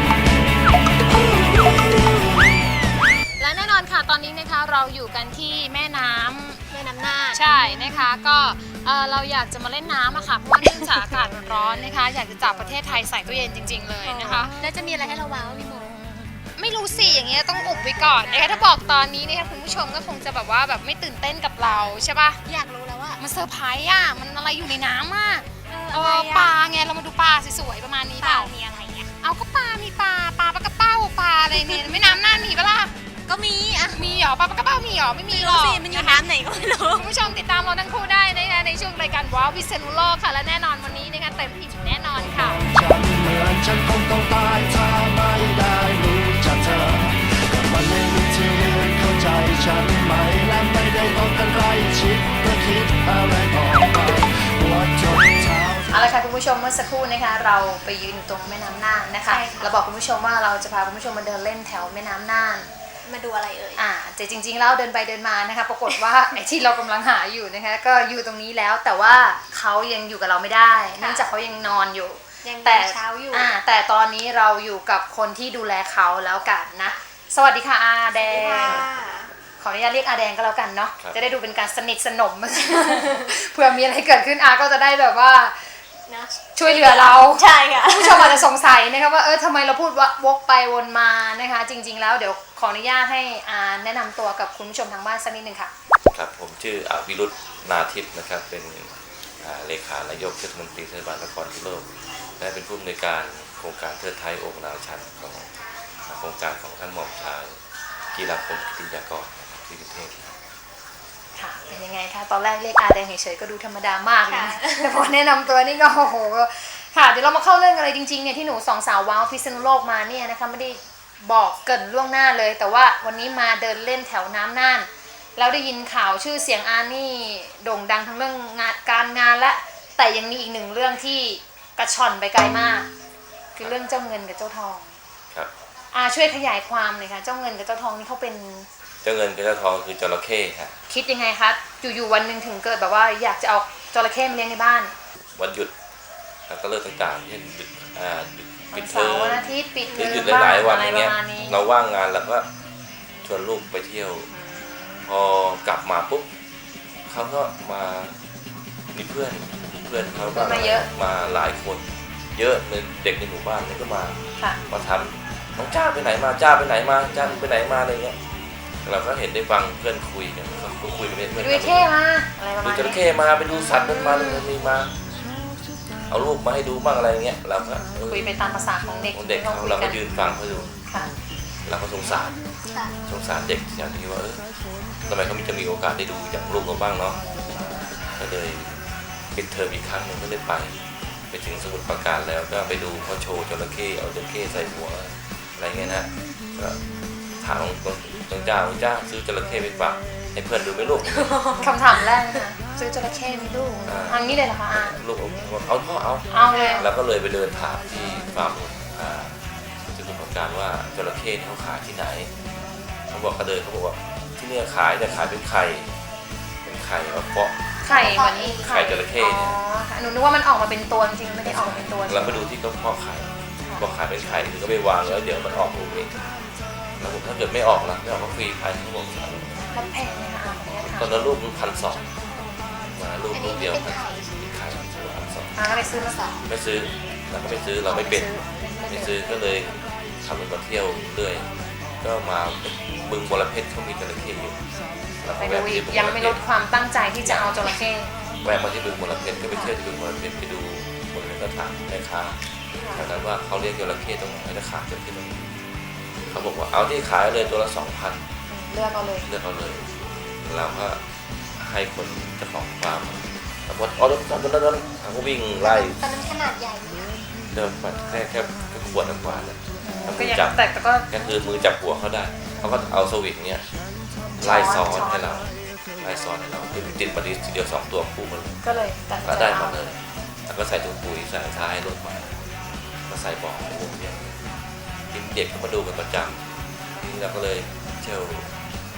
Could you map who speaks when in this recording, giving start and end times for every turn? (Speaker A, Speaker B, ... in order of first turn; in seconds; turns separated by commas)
Speaker A: 3.4-6.6, Speaker B: 6.7-7.4, Speaker A: 7.3-14.5, Speaker B: 14.0-16.4, Speaker A: 16.6-22.4, Speaker B: 18.2-18.7, Speaker B: 22.4-23.2, Speaker A: 23.2-28.5, Speaker B: 25.7-26.5, Speaker B: 28.2-29.1, Speaker A: 29.2-33.0, Speaker B: 31.5-32.1, Speaker B: 33.2-34.0, Speaker A: 33.9-36.2, Speaker B: 35.3-37.1, Speaker A: 36.9-42.6, Speaker C: 42.2-56.0, Speaker A: 55.9-62.7, Speaker B: 59.2-59.7, Speaker B: 63.0-63.8, Speaker A: 63.8-78.8, Speaker B: 71.0-71.2, Speaker B: 72.4-73.5, Speaker B: 78.2-79.3, Speaker D: 78.6-78.9, Speaker A: 79.6-85.8, Speaker B: 86.1-88.5, Speaker A: 86.5-95.7, Speaker D: 96.0-105.5, Speaker D: 106.0-107.6, Speaker D: 108.1-110.3, Speaker A: 111.3-132.9, Speaker B: 114.3-115.0, Speaker A: 133.5-134.9, Speaker A: 135.9-138.7, Speaker D: 139.0-140.8, Speaker A: 140.9-144.9, Speaker D: 145.3-145.7, Speaker D: 146.5-152.4, Speaker A: 148.7-151.7, Speaker B: 149.9-150.2, Speaker D: 153.2-154.3, Speaker A: 154.4-154.7, Speaker D: 155.1-156.3, Speaker D: 157.1-158.2, Speaker D: 158.9-161.8, Speaker A: 160.3-160.9, Speaker D: 162.3-168.2, Speaker D: 168.8-171.9, Speaker A: 171.4-173.0, Speaker D: 172.6-174.9, Speaker A: 173.8-174.4, Speaker D: 176.1-178.3, Speaker A: 178.0-180.0, Speaker D: 179.1-180.7, Speaker A: 180.8-181.1, Speaker D: 181.6-182.4, Speaker D: 183.1-184.4, Speaker D: 185.1-187.2, Speaker D: 188.2-188.8, Speaker D: 189.3-196.8, Speaker D: 197.4-201.4, Speaker B: 201.1-201.7, Speaker A: 201.6-204.9, Speaker D: 203.8-209.3, Speaker A: 206.3-206.9, Speaker B: 206.5-206.8, Speaker D: 209.9-212.3, Speaker D: 213.1-215.9, Speaker D: 216.6-217.5, Speaker A: 217.8-222.4, Speaker B: 217.9-218.8, Speaker D: 218.6-219.6, Speaker D: 221.4-226.1, Speaker D: 227.0-229.7, Speaker A: 229.7-231.3, Speaker D: 230.8-232.1, Speaker B: 232.4-232.7, Speaker D: 232.9-235.6, Speaker B: 233.3-234.4, Speaker A: 235.5-236.2, Speaker B: 235.6-236.4, Speaker D: 236.4-238.3, Speaker A: 237.8-239.2, Speaker D: 238.9-241.5, Speaker D: 242.0-244.6, Speaker D: 245.2-246.4, Speaker A: 245.3-248.1, Speaker D: 247.2-247.8, Speaker D: 248.4-252.4, Speaker A: 249.5-249.7, Speaker A: 252.7-253.1, Speaker D: 252.9-255.5, Speaker D: 256.3-258.2, Speaker A: 258.5-259.3, Speaker D: 259.2-259.9, Speaker D: 260.4-261.0, Speaker D: 261.6-266.0, Speaker B: 265.6-267.2, Speaker D: 267.5-270.6, Speaker A: 269.8-271.3, Speaker D: 271.1-273.6, Speaker A: 272.6-272.9, Speaker A: 274.1-275.5, Speaker D: 274.4-275.5, Speaker D: 276.0-278.6, Speaker A: 278.6-280.0, Speaker D: 279.2-282.4, Speaker D: 283.1-284.4, Speaker D: 285.1-286.4, Speaker D: 287.0-288.5